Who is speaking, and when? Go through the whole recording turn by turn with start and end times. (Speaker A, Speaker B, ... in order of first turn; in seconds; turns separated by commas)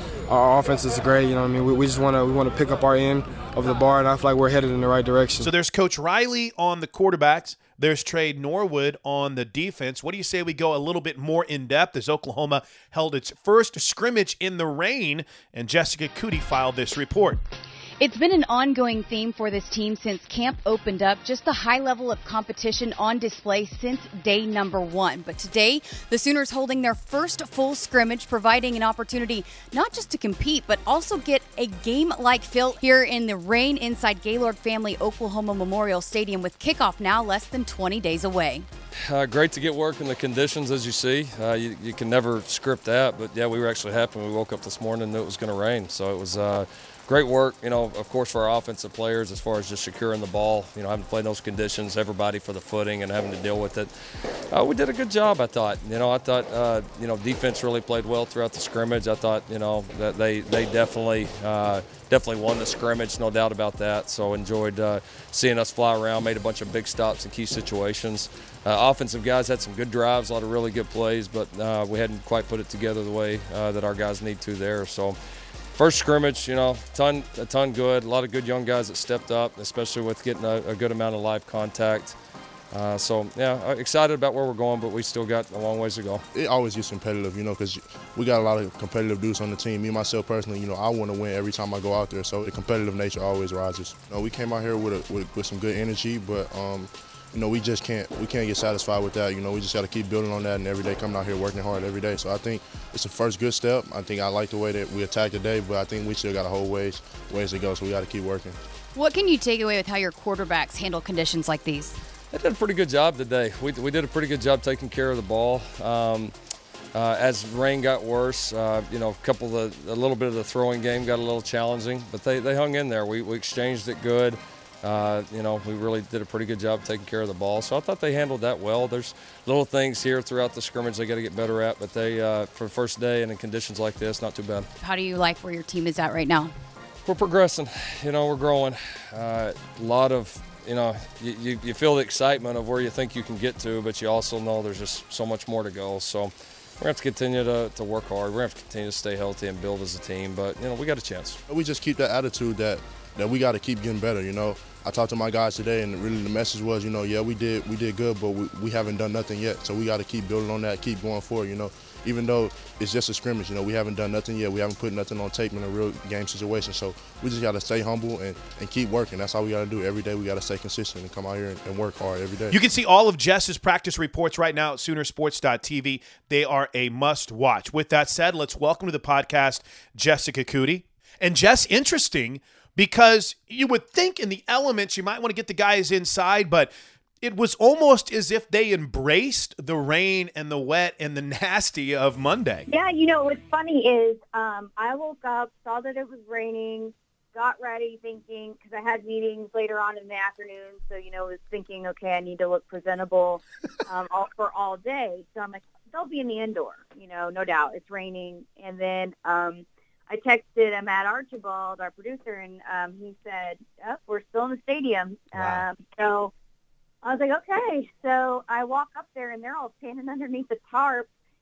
Speaker A: 0.3-5.5, Speaker B: 5.4-17.4, Speaker C: 18.0-38.6, Speaker D: 39.0-53.9, Speaker D: 54.5-75.2, Speaker D: 75.7-82.2, Speaker D: 82.7-86.2, Speaker E: 86.3-108.6, Speaker C: 108.9-112.0, Speaker D: 112.3-116.3, Speaker D: 116.9-134.7, Speaker C: 134.8-136.5, Speaker D: 137.0-151.4, Speaker E: 151.5-172.6, Speaker B: 172.5-192.7, Speaker F: 192.7-216.3, Speaker B: 215.3-215.6, Speaker F: 217.0-221.1